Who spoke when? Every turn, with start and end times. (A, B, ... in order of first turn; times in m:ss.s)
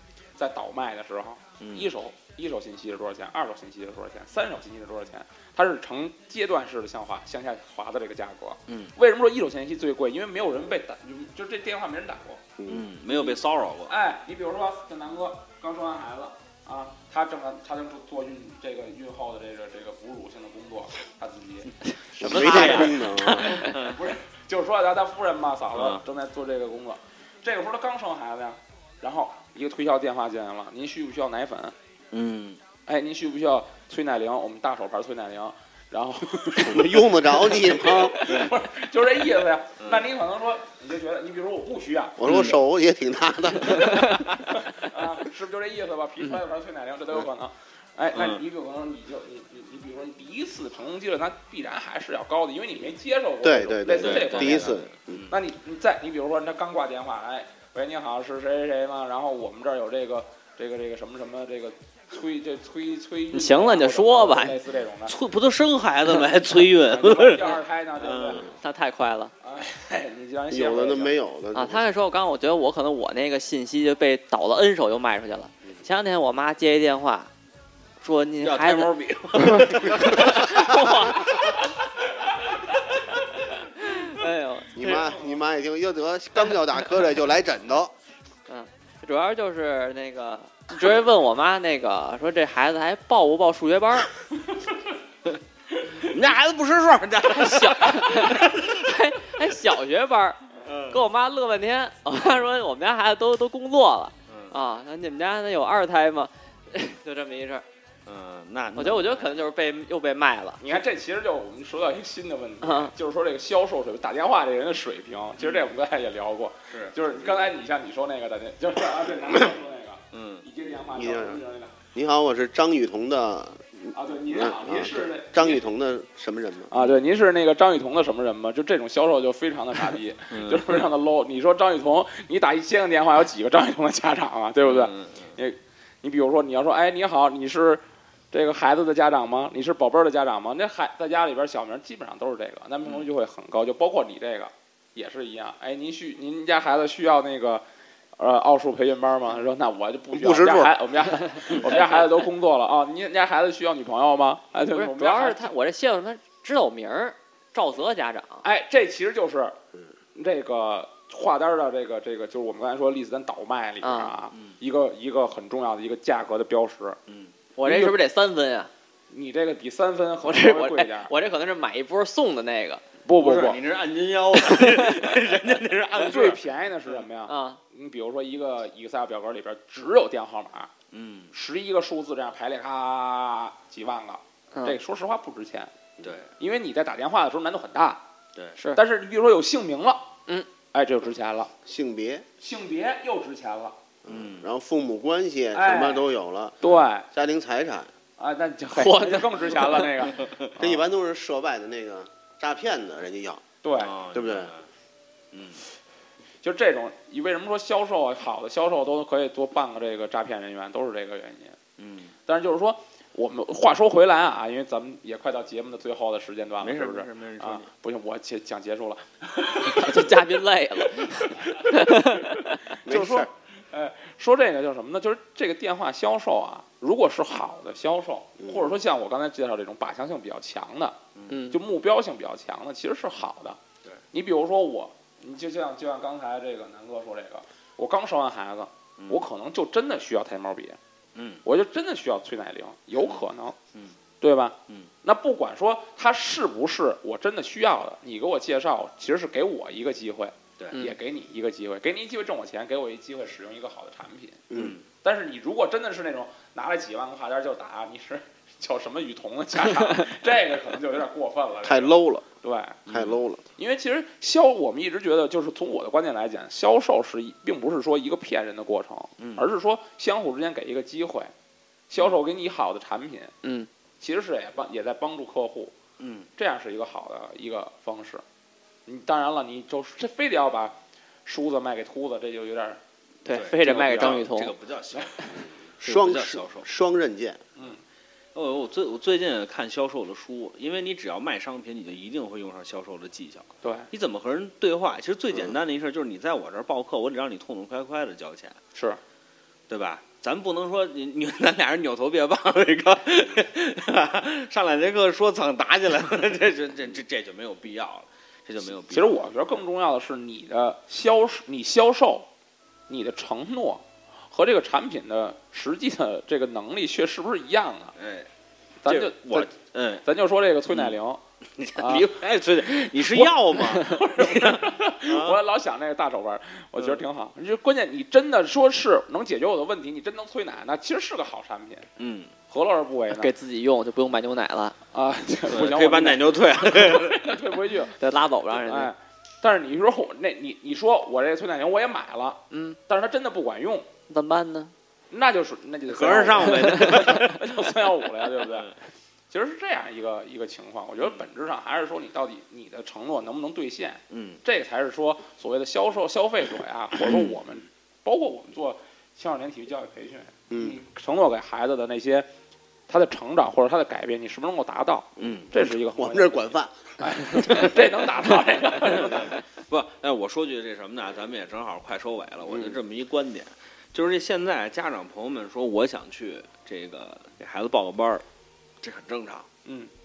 0:00.4-0:12.4 A
0:01.6-0:01.9 B
0:12.6-0:12.9 C
0:12.7-0:13.9 B
0:13.1-0:21.7 A
0:22.2-0:23.6 C
0:22.2-0:24.0 B
0:22.3-0:22.9 D
0:23.4-0:31.7 A
0:25.7-0:26.0 B
0:32.1-0:32.6 B
0:32.9-0:42.5 A
0:36.6-0:38.3 C
0:39.8-0:40.1 B
0:42.2-0:44.2 C
0:42.2-0:42.6 B
0:44.5-1:05.2 A
0:48.1-0:48.4 B
0:53.4-0:55.2 C
0:53.9-0:55.3 B
1:03.3-1:04.6 D
1:05.1-1:08.5 B
1:06.8-1:08.5 A
1:08.6-1:09.3 D
1:09.4-1:11.1 A
1:10.5-1:11.8 C
1:11.5-1:17.3 D
1:18.0-1:21.7 D
1:18.4-1:21.6 B
1:23.8-1:25.1 D
1:24.7-1:27.9 C
1:28.5-1:34.1 D
1:35.9-1:38.7 B
1:37.3-1:47.6 D
1:40.6-1:41.0 B
1:44.3-1:44.5 B
1:48.0-1:49.5 B
1:48.8-1:50.6 D
1:50.6-2:01.7 A
1:52.6-1:52.9 D
1:55.4-1:55.6 B
2:00.1-2:00.4 B
2:00.8-2:01.4 C
2:01.9-2:06.7 C
2:03.9-2:05.6 A
2:06.7-2:27.6 A
2:10.3-2:10.8 B
2:14.6-2:15.3 B
2:28.2-2:35.5 A
2:30.1-2:30.9 C
2:34.7-2:38.4 D
2:38.4-2:39.6 A
2:40.1-2:47.0 A
2:43.8-2:44.1 D
2:47.1-2:47.3 B
2:47.6-2:48.7 D
2:47.6-2:48.0 A
2:49.1-2:51.1 A
2:50.2-2:52.8 D
2:53.0-2:53.6 A
2:53.2-2:56.4 B
2:54.5-2:55.1 D
2:56.0-3:00.7 A
2:57.3-2:57.6 D
3:00.9-3:01.3 B
3:01.3-3:05.7 A
3:06.0-3:06.3 B
3:06.4-3:08.0 A
3:08.6-3:08.8 D
3:08.7-3:10.1 A
3:10.7-3:11.5 A
3:11.6-3:12.2 C
3:12.4-3:13.8 A
3:14.0-3:16.6 C
3:14.1-3:14.5 B
3:15.5-3:16.1 A
3:16.6-3:17.1 A
3:17.1-3:17.9 C
3:18.2-3:20.7 A
3:18.7-3:19.8 D
3:20.6-3:23.4 C
3:23.6-3:23.9 A
3:23.8-3:24.7 B
3:24.1-3:24.5 C
3:25.3-3:25.6 B
3:26.4-3:31.6 A
3:31.8-3:32.1 B
3:32.3-3:40.0 A
3:36.6-3:37.7 B
3:39.6-3:42.4 D
3:41.5-3:51.0 A
3:42.8-3:43.3 C
3:48.4-3:48.7 C
3:51.1-3:51.4 B
3:51.3-3:51.6 D
3:51.5-3:53.6 A
3:54.1-4:00.8 A
3:59.0-3:59.2 B
4:01.1-4:01.4 B
4:01.4-4:03.6 A
4:03.0-4:03.2 B
4:04.2-4:14.4 A
4:14.5-4:14.8 C
4:14.5-4:14.8 B
4:15.0-4:22.8 A
4:21.6-4:22.2 C
4:22.9-4:23.4 C
4:22.9-4:23.2 B
4:23.6-4:31.3 A
4:29.2-4:29.5 B
4:31.9-4:33.4 A
4:33.4-4:33.7 D
4:34.0-4:35.7 A
4:36.0-4:36.3 B
4:36.4-4:38.2 A
4:38.8-4:42.8 A
4:43.2-4:44.5 D
4:43.3-4:46.7 B
4:43.6-4:44.2 A
4:45.8-4:47.4 C
4:48.3-4:58.6 B
4:53.6-4:53.9 A
4:58.7-4:59.0 A
4:59.7-5:09.4 B
5:08.9-5:12.3 A
5:12.9-5:17.9 A
5:18.0-5:18.3 B
5:18.8-5:19.5 A
5:18.8-5:20.0 B
5:20.0-5:21.2 A
5:21.6-5:25.4 B
5:21.7-5:22.1 A
5:23.1-5:31.9 A
5:32.0-5:32.3 B
5:32.5-5:33.3 A
5:33.1-5:34.8 D
5:34.9-5:38.0 A
5:35.5-5:37.3 B
5:38.0-5:38.9 D
5:38.6-5:43.9 A
5:42.5-5:42.8 D
5:44.1-5:44.7 D
5:45.1-5:48.7 A
5:45.9-5:47.7 B
5:46.5-5:47.1 D
5:48.4-5:48.7 B
5:49.3-6:02.3 A
5:54.1-5:54.4 B
5:57.0-5:57.3 B
6:00.5-6:00.8 C
6:02.9-6:09.4 A
6:05.2-6:05.5 B
6:05.6-6:06.8 C
6:09.0-6:18.2 B
6:12.5-6:12.7 C
6:18.8-6:19.5 B
6:19.6-6:19.9 A